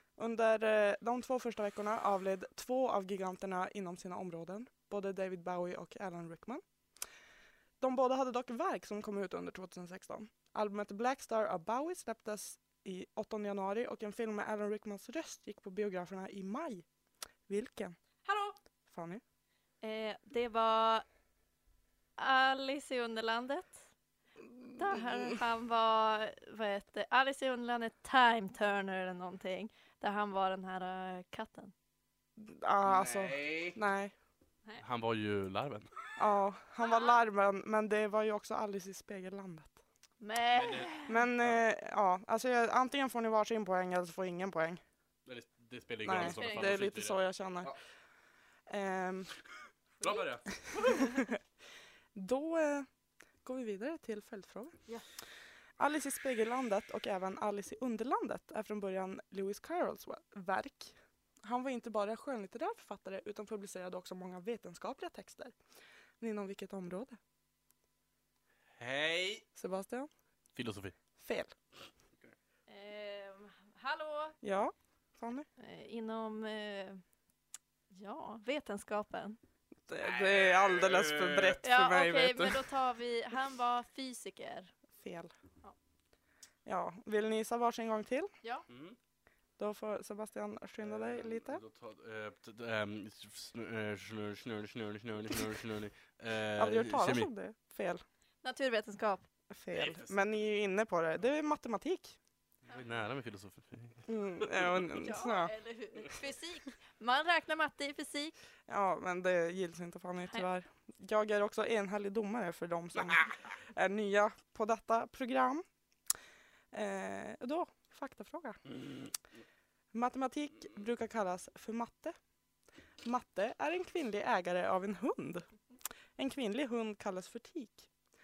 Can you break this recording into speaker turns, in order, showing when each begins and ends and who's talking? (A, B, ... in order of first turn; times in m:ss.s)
0:00.2-0:06.6 A
0:07.8-0:16.8 A
0:17.5-0:18.0 A
0:18.2-0:18.6 B
0:18.9-0:19.2 A
0:19.8-0:21.0 B
0:22.2-0:23.8 B
0:24.8-0:25.4 A
0:24.8-0:31.7 B
0:32.4-0:34.1 A
0:32.8-0:33.8 C
0:34.8-0:35.9 C
0:36.2-0:39.8 A
0:36.8-0:37.2 B
0:40.2-0:41.2 B
0:40.5-0:41.6 C
0:41.1-0:44.8 A
0:45.3-0:47.8 C
0:46.0-0:47.7 A
0:46.2-0:46.8 B
0:48.7-0:49.3 A
0:50.0-0:51.1 B
0:50.0-0:51.0 C
0:52.1-0:52.9 A
0:53.4-0:54.8 A
0:55.8-1:05.6 A
1:06.2-1:07.2 A
1:08.8-1:09.4 C
1:09.6-1:10.1 A
1:10.6-1:11.0 C
1:11.2-1:11.5 A
1:12.7-1:14.4 B
1:14.4-1:15.5 A
1:15.6-1:17.0 B
1:17.9-1:19.4 B
1:19.9-1:22.6 A
1:20.0-1:21.6 C
1:21.6-1:24.7 B
1:25.0-1:25.3 A
1:26.6-1:28.3 A
1:28.7-1:29.0 C
1:29.6-1:31.6 A
1:30.8-1:37.3 C
1:36.6-1:38.0 A
1:38.4-1:39.3 B
1:39.5-1:42.2 A
1:39.7-1:40.3 C
1:42.6-1:44.8 C
1:44.1-1:45.5 A
1:44.9-1:48.4 B
1:48.7-1:55.6 A
1:56.7-1:58.6 A
1:58.7-1:59.1 C
1:59.9-2:02.2 A
2:03.0-2:05.5 A
2:06.2-2:07.9 A